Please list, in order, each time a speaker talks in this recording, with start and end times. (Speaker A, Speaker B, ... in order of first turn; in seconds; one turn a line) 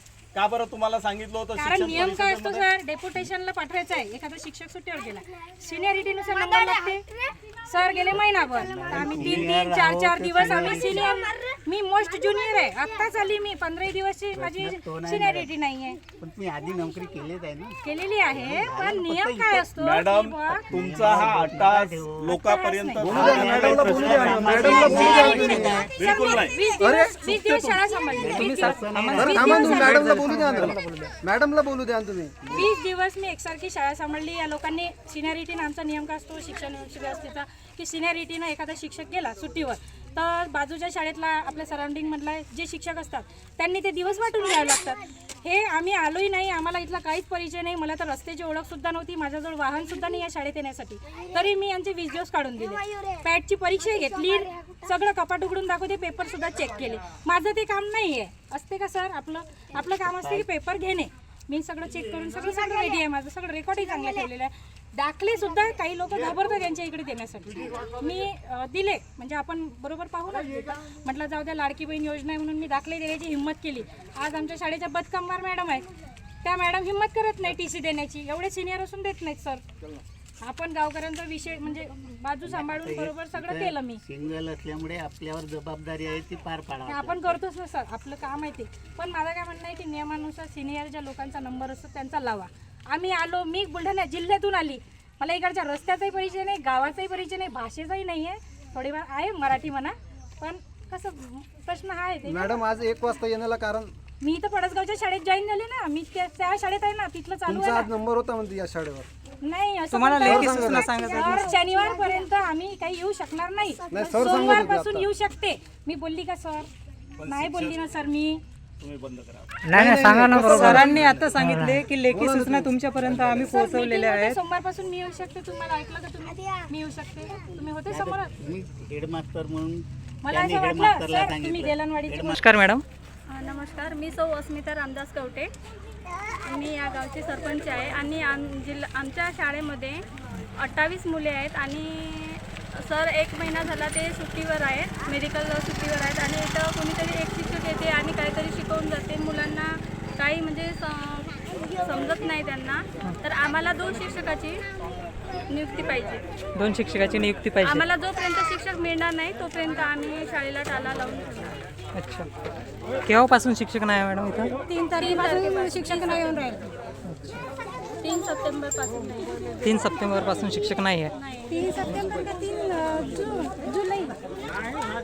Speaker A: 0.3-2.6
Speaker B: 1.6-7.1
Speaker B: 7.6-16.0
Speaker C: 8.6-11.1
Speaker C: 14.3-15.5
Speaker C: 16.1-17.8
Speaker B: 17.8-20.6
Speaker C: 18.3-19.7
Speaker A: 19.8-26.6
Speaker C: 20.7-22.4
Speaker B: 22.3-23.1
Speaker D: 23.0-25.9
Speaker C: 23.2-25.9
Speaker B: 24.9-30.1
Speaker D: 26.8-27.2
Speaker A: 27.2-27.8
Speaker C: 28.1-29.6
Speaker E: 28.3-30.6
Speaker D: 29.1-32.3
Speaker B: 32.5-75.9
Speaker C: 60.2-60.5
Speaker B: 76.4-79.6
Speaker B: 80.4-84.0
Speaker C: 82.4-87.4
Speaker B: 86.9-102.6
Speaker D: 102.2-103.9
Speaker B: 104.2-107.9
Speaker D: 107.5-109.1
Speaker B: 109.4-116.7
Speaker E: 109.9-111.5
Speaker D: 110.2-110.8
Speaker D: 113.9-115.1
Speaker A: 117.2-117.7
Speaker B: 117.2-118.4
Speaker A: 118.8-119.5
Speaker E: 119.6-124.3
Speaker D: 119.7-123.5
Speaker B: 123.3-128.3
Speaker C: 127.9-132.4
Speaker B: 130.2-132.4
Speaker E: 132.4-132.8
Speaker F: 133.3-135.5
Speaker F: 136.4-154.6
Speaker F: 155.5-156.2
Speaker E: 156.5-157.8
Speaker F: 157.6-161.6
Speaker E: 161.9-162.3
Speaker E: 163.1-164.5
Speaker B: 164.7-166.5
Speaker F: 165.0-166.4
Speaker E: 167.1-167.4
Speaker F: 168.0-169.6
Speaker E: 169.6-171.1
Speaker F: 171.2-171.5
Speaker B: 171.5-174.2